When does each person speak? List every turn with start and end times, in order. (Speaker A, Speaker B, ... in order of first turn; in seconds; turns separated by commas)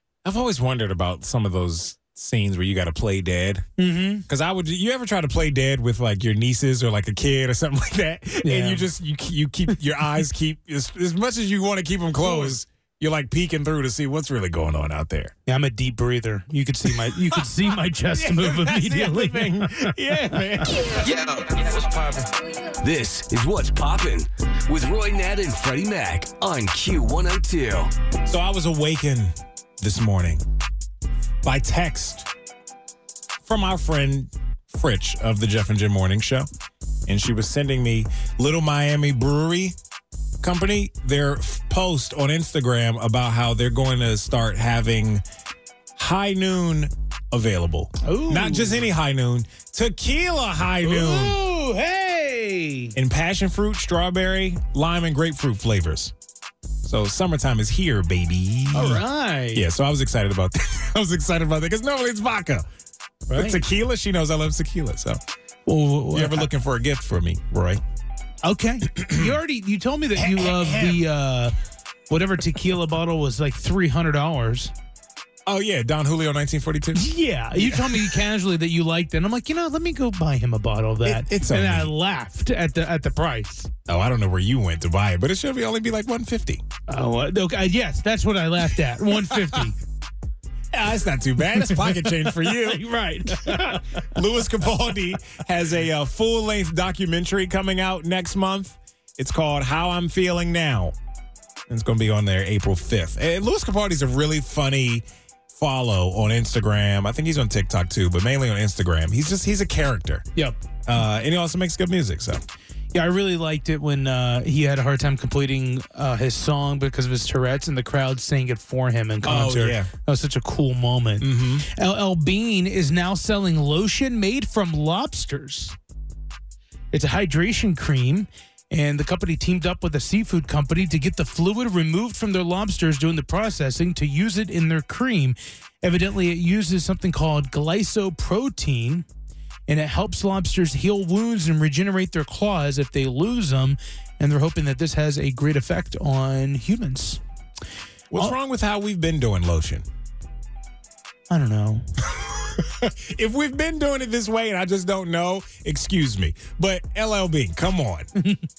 Speaker A: 0.2-3.7, Speaker B: 3.8-4.3, Speaker A: 4.3-15.3, Speaker B: 8.4-8.9, Speaker B: 12.2-12.5, Speaker B: 15.5-20.4, Speaker A: 17.1-17.5, Speaker A: 18.1-21.1, Speaker C: 21.0-27.9, Speaker A: 28.3-30.4, Speaker A: 31.4-32.3, Speaker A: 33.4-36.5, Speaker A: 37.1-39.8, Speaker A: 40.4-45.2, Speaker A: 46.0-51.4, Speaker B: 48.0-48.9, Speaker B: 50.8-52.9, Speaker A: 53.0-56.1, Speaker A: 56.8-62.7, Speaker B: 58.7-59.7, Speaker B: 63.3-63.6, Speaker A: 63.3-65.2, Speaker B: 65.7-66.5, Speaker A: 66.1-67.8, Speaker B: 68.4-71.5, Speaker A: 68.9-69.3, Speaker A: 70.2-71.1, Speaker B: 72.1-74.7, Speaker A: 75.5-78.2, Speaker B: 77.0-83.7, Speaker A: 81.0-81.9, Speaker A: 83.9-86.6, Speaker B: 86.9-89.8, Speaker A: 89.2-89.7, Speaker A: 90.7-101.0, Speaker B: 91.7-94.1, Speaker A: 101.7-110.3, Speaker B: 110.4-110.6, Speaker A: 110.9-112.4, Speaker B: 112.9-125.8, Speaker A: 119.2-119.9, Speaker A: 121.2-121.7, Speaker B: 126.9-139.1, Speaker B: 139.7-147.2, Speaker A: 148.1-149.8, Speaker B: 151.3-151.9, Speaker A: 152.1-158.1, Speaker B: 158.2-158.5